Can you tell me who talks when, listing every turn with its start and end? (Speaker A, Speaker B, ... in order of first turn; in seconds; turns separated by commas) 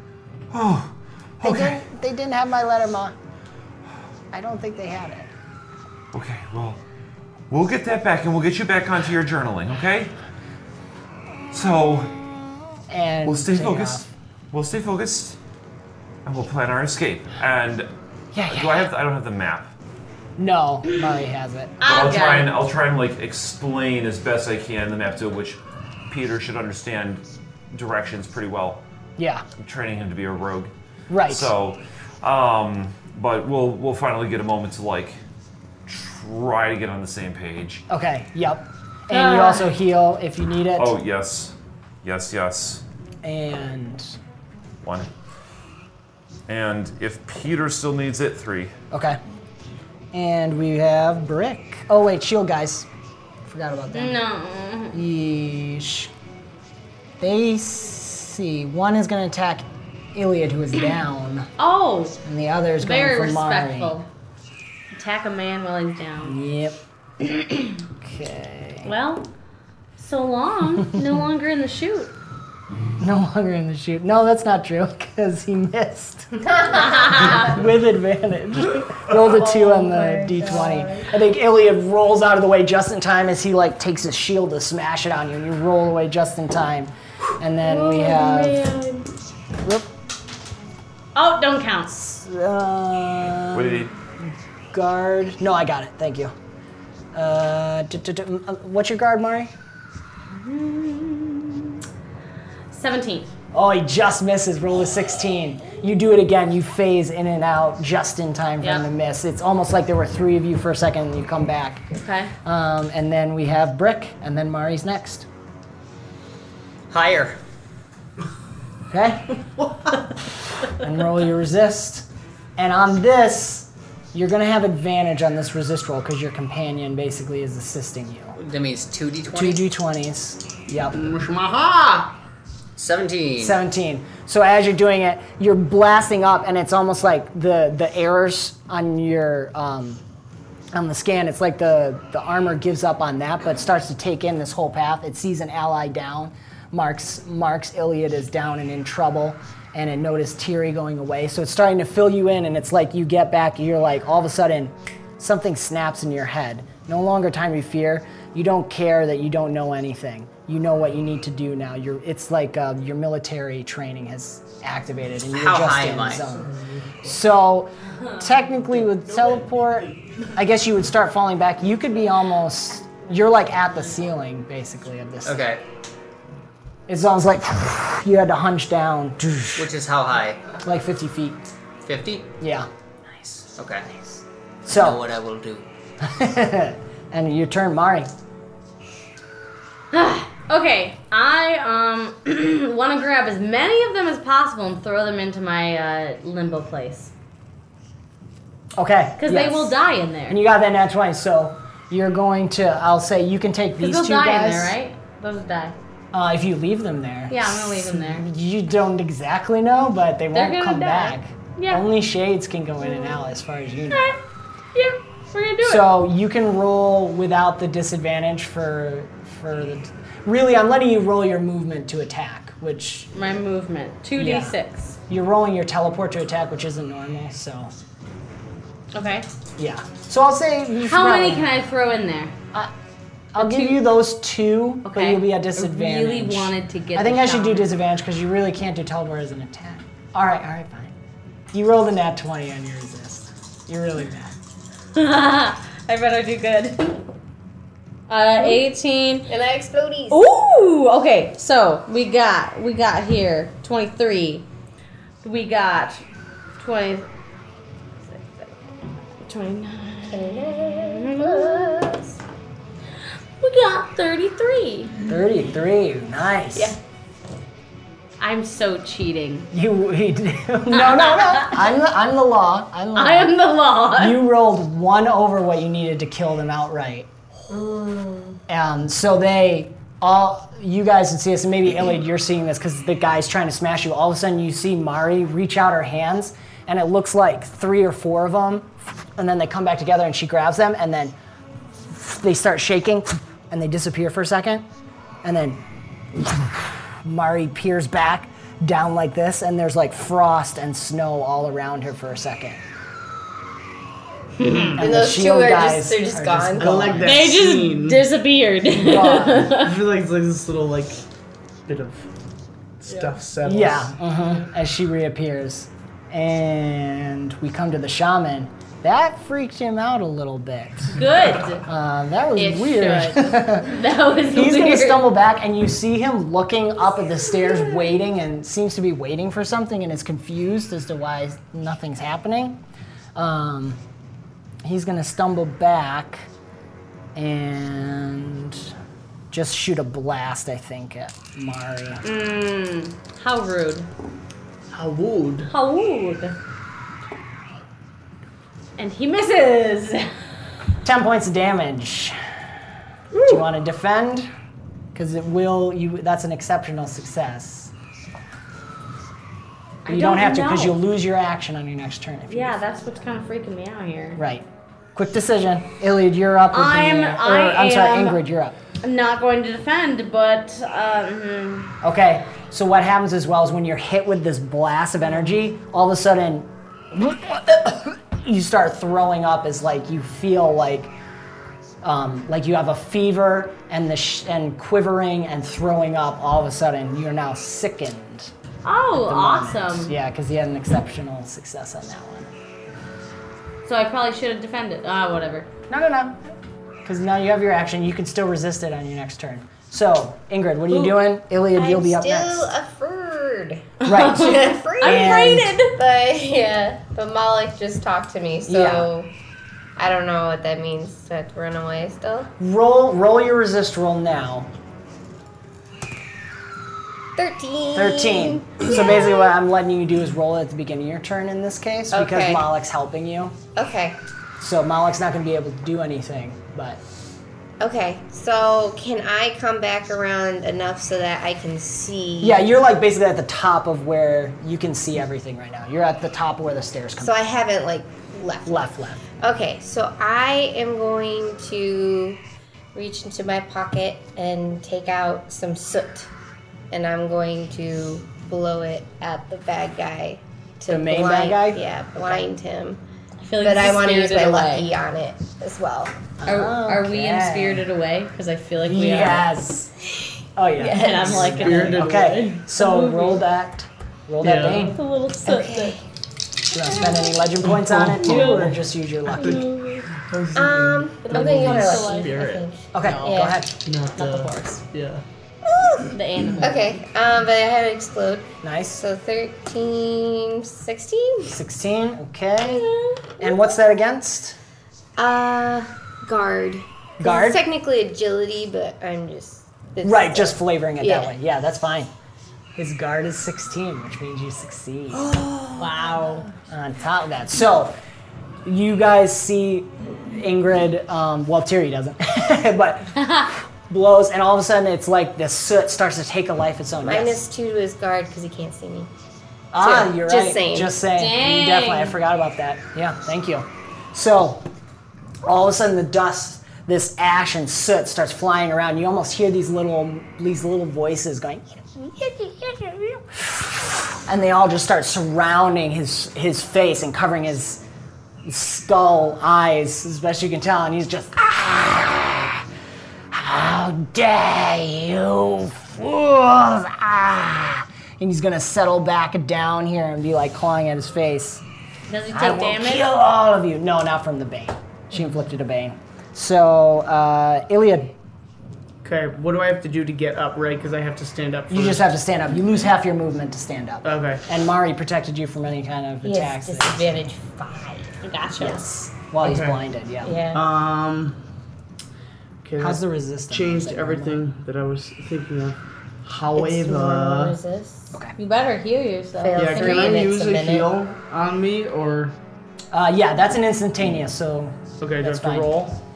Speaker A: 0.5-1.8, Speaker B: 1.4-3.1, Speaker B: 4.3-5.3, Speaker A: 6.1-6.8, Speaker A: 7.5-10.1, Speaker A: 11.5-12.1, Speaker B: 12.9-14.0, Speaker A: 13.2-15.4, Speaker A: 16.2-17.9, Speaker B: 18.3-18.9, Speaker A: 18.5-19.7, Speaker B: 20.4-21.8, Speaker C: 21.8-22.5, Speaker A: 21.8-28.8, Speaker B: 29.2-29.4, Speaker A: 29.6-30.7, Speaker B: 31.1-31.5, Speaker A: 31.2-35.2, Speaker A: 35.9-37.8, Speaker B: 37.9-40.9, Speaker C: 39.1-39.7, Speaker A: 40.8-42.8, Speaker B: 43.2-44.1, Speaker A: 44.8-45.1, Speaker A: 46.5-48.7, Speaker B: 48.9-49.2, Speaker B: 50.1-52.9, Speaker B: 53.4-54.2, Speaker C: 53.9-55.0, Speaker B: 54.9-56.1, Speaker B: 57.2-61.5, Speaker C: 61.6-62.2, Speaker B: 62.2-63.9, Speaker C: 62.8-64.1, Speaker C: 64.9-66.4, Speaker B: 66.2-66.8, Speaker B: 68.0-68.9, Speaker C: 68.8-69.3, Speaker C: 70.0-72.1, Speaker B: 73.0-88.6, Speaker D: 76.5-77.3, Speaker C: 76.8-77.5, Speaker D: 79.4-79.9, Speaker C: 79.8-80.7, Speaker C: 87.6-89.0, Speaker B: 89.6-89.9, Speaker C: 91.1-92.0, Speaker B: 91.9-93.9, Speaker A: 93.5-93.9, Speaker B: 94.7-96.3, Speaker B: 97.1-99.5, Speaker C: 100.4-101.7, Speaker C: 102.7-103.3, Speaker B: 103.5-111.8, Speaker C: 108.6-108.9, Speaker C: 112.0-112.3, Speaker B: 112.4-115.3, Speaker E: 116.9-117.4, Speaker B: 118.9-119.4, Speaker B: 120.7-128.3, Speaker E: 128.3-129.7, Speaker B: 129.3-131.0, Speaker F: 130.9-132.2, Speaker E: 132.8-133.6, Speaker B: 133.4-140.0, Speaker B: 140.7-175.5, Speaker E: 165.2-166.3, Speaker F: 166.5-167.0, Speaker F: 168.9-169.9, Speaker E: 175.2-175.6, Speaker B: 176.9-179.7, Speaker E: 179.6-180.4, Speaker B: 180.6-181.4, Speaker E: 181.8-182.3, Speaker B: 182.4-185.0, Speaker E: 183.6-183.9, Speaker E: 184.6-185.7, Speaker B: 186.0-188.1, Speaker C: 189.9-197.1, Speaker B: 198.7-204.7, Speaker C: 199.2-200.4, Speaker C: 203.8-205.7, Speaker B: 206.1-214.2, Speaker C: 207.3-208.3, Speaker C: 210.3-211.8, Speaker C: 213.9-214.2, Speaker C: 214.7-216.0, Speaker B: 215.6-223.1, Speaker C: 223.1-225.0, Speaker B: 224.2-224.5, Speaker B: 225.1-227.7, Speaker C: 228.9-229.3, Speaker B: 229.6-231.5, Speaker C: 230.8-232.3, Speaker B: 233.3-240.9, Speaker C: 233.4-233.8, Speaker C: 234.8-237.7, Speaker B: 241.5-244.3, Speaker C: 244.9-247.0, Speaker C: 248.1-249.3, Speaker D: 249.3-250.2, Speaker C: 250.1-254.4, Speaker C: 255.2-256.0, Speaker C: 256.6-257.1, Speaker C: 258.1-258.5, Speaker C: 259.2-261.9, Speaker D: 260.1-262.1, Speaker C: 263.4-264.9, Speaker B: 265.1-266.8, Speaker C: 268.2-269.5, Speaker B: 269.5-277.1, Speaker C: 270.7-271.6, Speaker C: 272.9-274.2, Speaker D: 277.5-278.4, Speaker B: 278.5-291.1, Speaker B: 291.9-294.6, Speaker B: 295.2-295.6, Speaker B: 296.1-302.6, Speaker C: 304.4-304.7, Speaker F: 304.4-304.8, Speaker B: 304.8-307.2, Speaker D: 304.8-306.9, Speaker F: 306.6-308.1, Speaker C: 307.0-309.7, Speaker B: 308.7-309.5, Speaker F: 309.5-311.0, Speaker F: 311.7-312.1, Speaker F: 312.8-313.9, Speaker B: 313.4-321.0, Speaker C: 320.9-321.6, Speaker B: 321.5-332.6, Speaker C: 322.4-325.1, Speaker B: 333.1-333.8, Speaker B: 334.6-336.3, Speaker B: 337.1-338.7, Speaker B: 339.3-342.0, Speaker C: 342.0-343.9, Speaker F: 344.7-345.5, Speaker C: 345.5-346.4, Speaker C: 348.8-350.1, Speaker B: 350.8-352.2, Speaker B: 353.2-354.3, Speaker B: 354.9-357.7, Speaker C: 359.8-360.8, Speaker B: 359.9-362.7, Speaker C: 362.3-364.2, Speaker B: 364.1-368.6, Speaker C: 366.5-368.2, Speaker C: 368.8-371.7, Speaker B: 371.8-380.9, Speaker B: 381.8-388.3, Speaker C: 388.6-389.9, Speaker B: 388.9-392.3, Speaker C: 393.6-395.5, Speaker B: 395.7-396.3, Speaker B: 396.8-402.5, Speaker C: 400.7-401.0, Speaker D: 401.5-409.1, Speaker C: 403.8-405.7, Speaker B: 403.9-405.5, Speaker B: 408.4-408.9, Speaker D: 409.8-412.3, Speaker B: 412.4-414.5, Speaker D: 417.2-419.3, Speaker B: 417.7-423.4, Speaker D: 421.9-422.4, Speaker D: 423.6-424.0, Speaker B: 424.4-426.8, Speaker D: 427.6-432.4, Speaker B: 432.2-437.2, Speaker D: 437.0-438.6, Speaker B: 438.4-439.0, Speaker D: 439.2-442.2, Speaker D: 442.7-446.1, Speaker D: 446.7-452.8, Speaker B: 450.7-452.2, Speaker C: 453.2-454.7, Speaker D: 453.4-456.0, Speaker B: 456.2-457.7, Speaker C: 456.2-459.3, Speaker B: 458.6-459.7, Speaker B: 460.4-464.8, Speaker C: 460.6-463.2, Speaker D: 460.7-461.4, Speaker F: 461.2-462.2, Speaker F: 464.2-464.7, Speaker C: 464.5-465.8, Speaker D: 465.2-465.8, Speaker B: 466.5-469.4, Speaker F: 467.4-468.6, Speaker C: 468.0-468.5, Speaker C: 469.2-469.9, Speaker F: 469.2-473.1, Speaker D: 470.3-473.4, Speaker C: 471.0-472.4, Speaker B: 472.7-473.6, Speaker F: 473.6-475.0, Speaker C: 474.0-474.6, Speaker D: 475.4-481.4, Speaker C: 475.9-476.8, Speaker B: 478.4-478.8, Speaker B: 481.3-484.4, Speaker D: 485.0-491.1, Speaker B: 487.0-487.4, Speaker B: 489.8-491.9, Speaker B: 492.6-495.1, Speaker D: 495.2-495.6, Speaker C: 495.6-496.3, Speaker B: 496.4-497.8, Speaker B: 498.4-507.2, Speaker C: 503.0-503.3, Speaker D: 506.8-508.9, Speaker B: 509.5-514.4, Speaker D: 509.6-510.7, Speaker C: 510.9-512.0, Speaker B: 515.2-527.6, Speaker B: 528.2-532.4, Speaker B: 533.1-541.4, Speaker C: 541.9-542.9, Speaker B: 542.1-547.9, Speaker F: 548.8-551.9, Speaker B: 551.5-557.0, Speaker F: 553.8-554.2, Speaker D: 556.0-558.5, Speaker C: 558.0-558.5, Speaker B: 558.4-560.2, Speaker F: 559.2-559.6, Speaker D: 560.0-560.4, Speaker F: 560.3-561.2, Speaker F: 562.4-567.4, Speaker B: 562.6-564.2, Speaker D: 566.3-567.9, Speaker C: 568.2-570.0, Speaker D: 569.2-570.7, Speaker F: 569.3-572.1, Speaker B: 572.7-575.6, Speaker F: 574.8-575.8